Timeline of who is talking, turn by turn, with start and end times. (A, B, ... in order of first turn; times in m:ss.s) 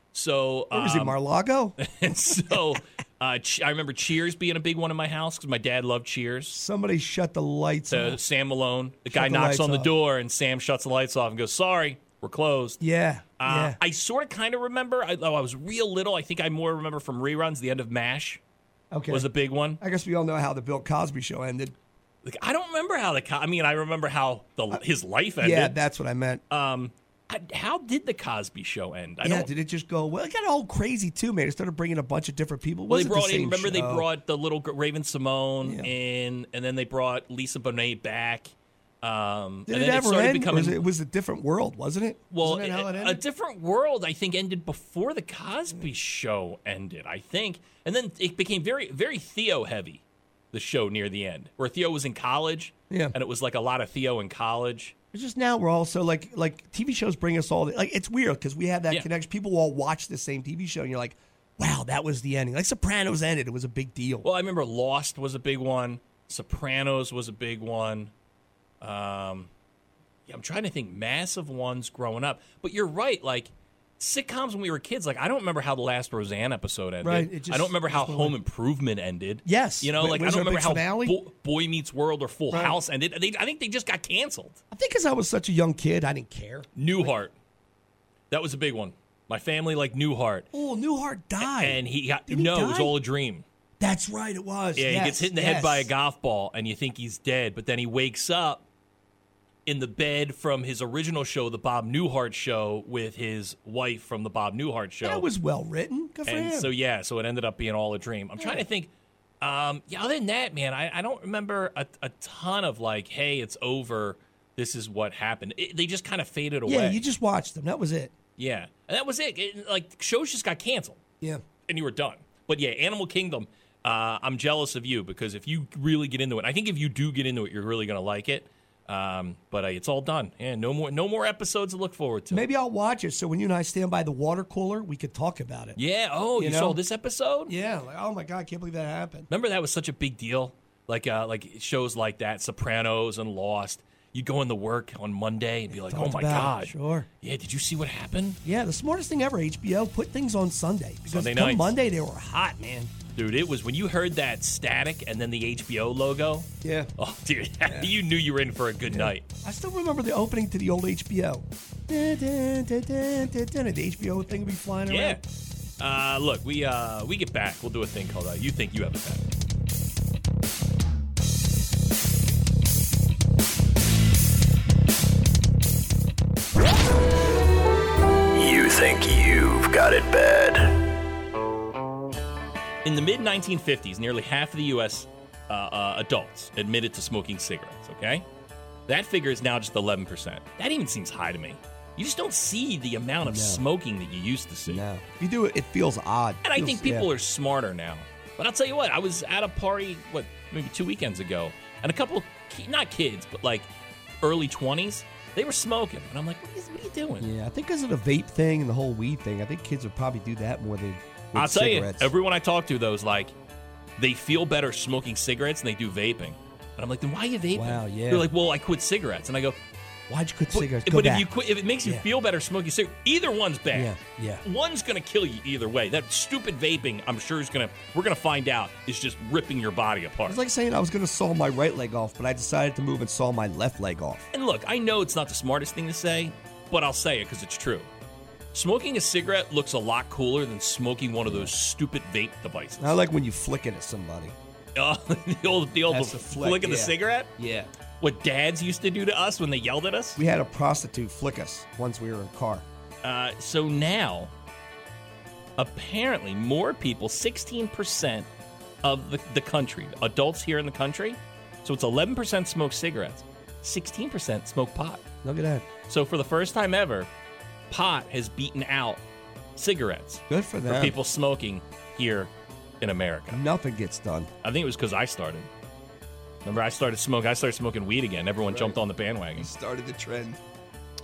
0:00.1-0:01.2 A
0:00.7-0:01.8 B
0:01.8-0:06.6 A
0:06.5-0:08.2 B
0:07.9-0:12.8 A
0:09.1-0:09.9 B
0:12.8-0:13.8 B
0:13.4-0:18.4 A
0:18.9-0:19.3 B
0:19.1-0:19.8 A
0:19.8-0:21.7 B
0:22.2-0:25.8 A
0:25.4-0:26.4 B
0:26.5-0:29.5 A
0:29.2-0:34.1 B
0:32.9-0:40.9 A
0:35.6-0:35.9 B
0:39.7-0:43.2 B
0:42.3-0:55.0 A
0:52.9-0:53.2 B
0:55.1-1:04.3 B
1:04.2-1:08.1 A
1:08.8-1:09.5 A
1:10.3-1:24.6 A
1:17.0-1:18.4 B
1:19.4-1:21.2 B
1:22.5-1:22.8 B
1:24.7-1:27.0 B
1:26.8-1:27.3 A
1:28.3-1:30.5 A
1:30.5-1:33.0 B
1:31.4-1:33.4 A
1:33.8-1:35.9 B
1:34.8-1:38.6 A
1:39.7-1:45.3 A
1:45.0-1:46.7 B
1:46.3-1:48.9 A
1:48.4-1:48.6 B
1:49.4-1:57.0 A
1:56.7-1:58.1 B
1:58.4-2:01.0 A
2:01.7-2:12.4 A
2:12.3-2:15.8 B
2:15.8-2:17.5 A
2:16.4-2:16.8 B
2:17.5-2:19.3 B
2:19.3-2:28.4 A
2:25.7-2:27.1 B
2:28.4-2:32.9 B
2:31.1-2:31.8 A
2:33.1-2:39.3 A
2:36.6-2:36.9 B
2:37.6-2:37.9 B
2:38.9-2:45.2 B
2:44.9-2:45.2 A
2:45.8-2:49.2 A
2:58.3-3:00.7 C
3:02.8-3:08.2 A
3:08.9-3:14.8 A
3:13.2-3:13.6 B
3:14.7-3:17.1 B
3:16.4-3:23.7 A
3:24.2-3:27.3 A
3:27.2-3:32.1 B
3:31.4-3:33.3 A
3:34.0-3:39.6 A
3:37.5-3:38.3 B
3:40.1-3:41.3 B
3:40.5-3:50.4 A
3:43.7-3:44.4 B
3:50.3-3:54.3 B
3:54.3-3:57.9 A
3:58.5-4:03.0 A
4:01.2-4:01.5 B
4:02.8-4:04.4 B
4:04.8-4:07.4 A
4:05.9-4:07.7 B
4:08.0-4:10.2 A
4:10.2-4:12.6 B
4:13.0-4:14.3 A
4:15.6-4:18.3 A
4:18.8-4:25.0 A
4:25.2-4:25.6 B
4:25.9-4:27.1 A
4:27.7-4:29.0 A
4:29.6-4:33.4 A
4:30.3-4:31.0 B
4:33.3-4:34.3 B
4:34.4-4:35.5 A
4:36.4-4:39.5 A
4:38.5-4:38.8 B
4:39.4-4:40.4 B